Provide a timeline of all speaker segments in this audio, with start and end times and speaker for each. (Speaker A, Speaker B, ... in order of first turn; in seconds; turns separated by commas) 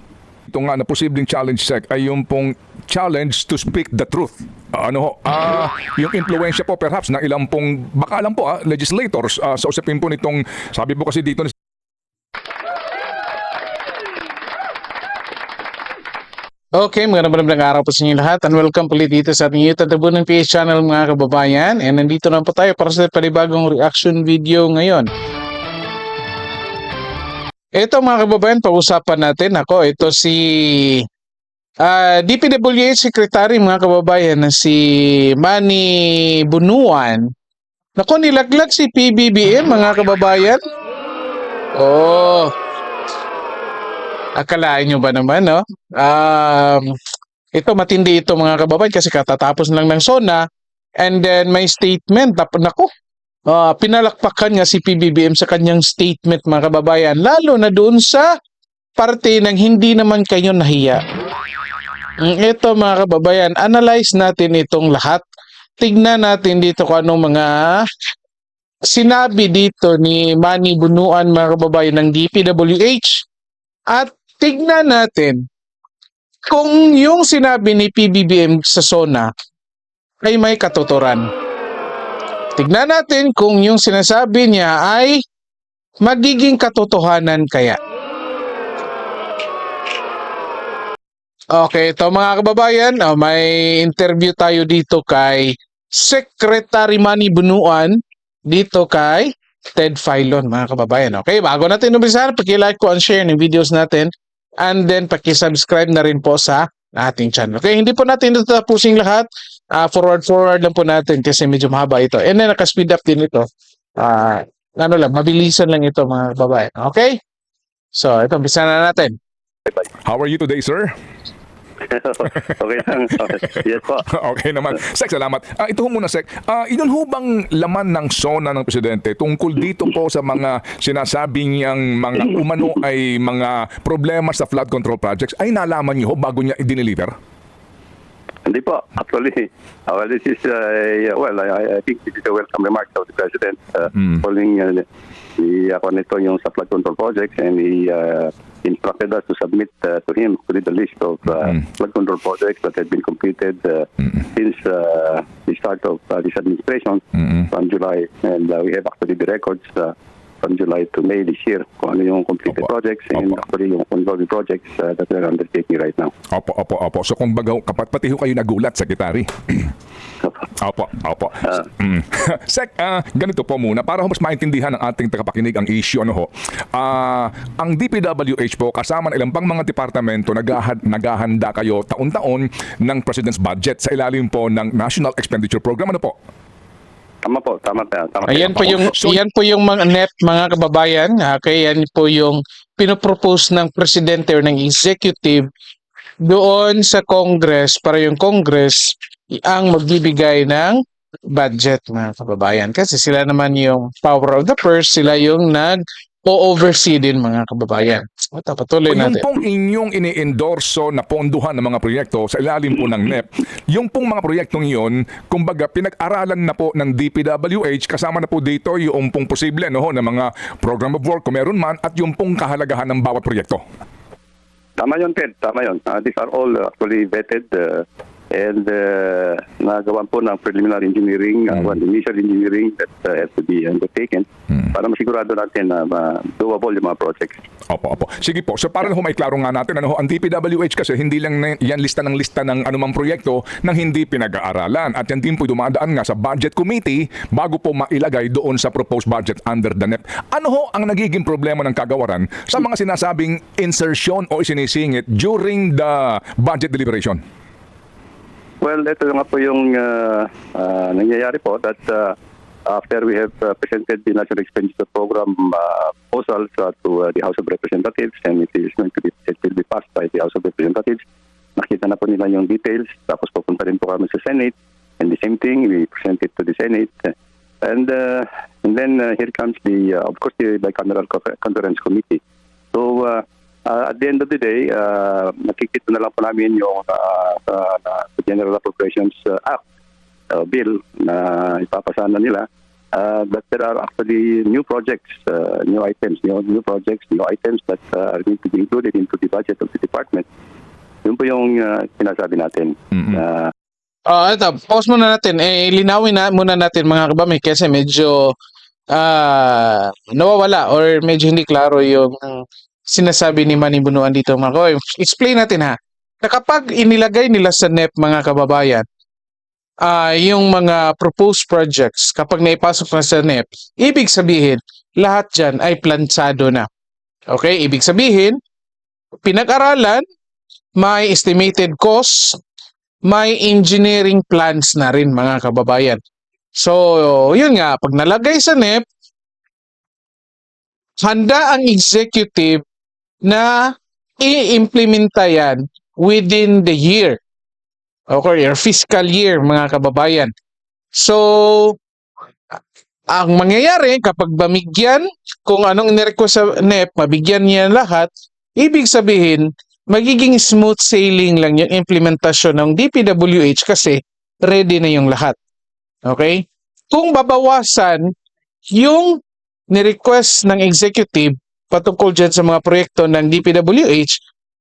Speaker A: 0.5-11.5, Speaker B: 16.8-25.1, Speaker B: 27.8-31.1, Speaker B: 31.8-37.3, Speaker B: 38.0-40.6, Speaker B: 41.7-42.5, Speaker B: 44.4-46.9, Speaker B: 47.5-50.5, Speaker B: 51.0-52.9, Speaker B: 53.5-58.3, Speaker B: 59.0-61.0, Speaker B: 62.2-65.2, Speaker B: 65.8-67.8, Speaker B: 68.8-73.2, Speaker B: 73.9-75.5, Speaker B: 76.5-79.3, Speaker B: 80.2-81.2, Speaker B: 82.5-85.2, Speaker B: 86.0-87.8, Speaker B: 91.5-117.2, Speaker B: 117.9-119.2, Speaker A: 120.0-120.9, Speaker C: 121.8-124.0, Speaker A: 123.2-137.1, Speaker C: 138.4-144.8, Speaker A: 143.9-144.2, Speaker C: 145.4-166.1, Speaker A: 157.2-157.5, Speaker A: 162.5-163.4, Speaker A: 166.3-169.7, Speaker A: 170.6-186.1, Speaker C: 187.2-188.9, Speaker B: 188.3-195.4, Speaker A: 188.3-189.2, Speaker B: 196.2-209.2, Speaker A: 208.9-223.6, Speaker C: 224.8-237.4, Speaker A: 237.7-257.2, Speaker C: 258.6-262.1, Speaker C: 262.7-271.0, Speaker C: 271.6-282.2, Speaker C: 282.7-289.6, Speaker C: 290.3-300.3, Speaker C: 301.0-303.5, Speaker A: 302.9-303.2, Speaker B: 304.1-308.4, Speaker B: 308.9-318.8, Speaker B: 319.8-326.7, Speaker B: 327.3-328.4, Speaker B: 329.2-330.0, Speaker B: 330.8-332.4, Speaker B: 333.1-336.0, Speaker B: 336.6-338.8, Speaker B: 341.0-342.6, Speaker B: 343.2-347.2, Speaker B: 348.1-350.3, Speaker B: 350.9-351.8, Speaker B: 353.1-365.4, Speaker B: 366.1-368.1, Speaker B: 368.7-374.2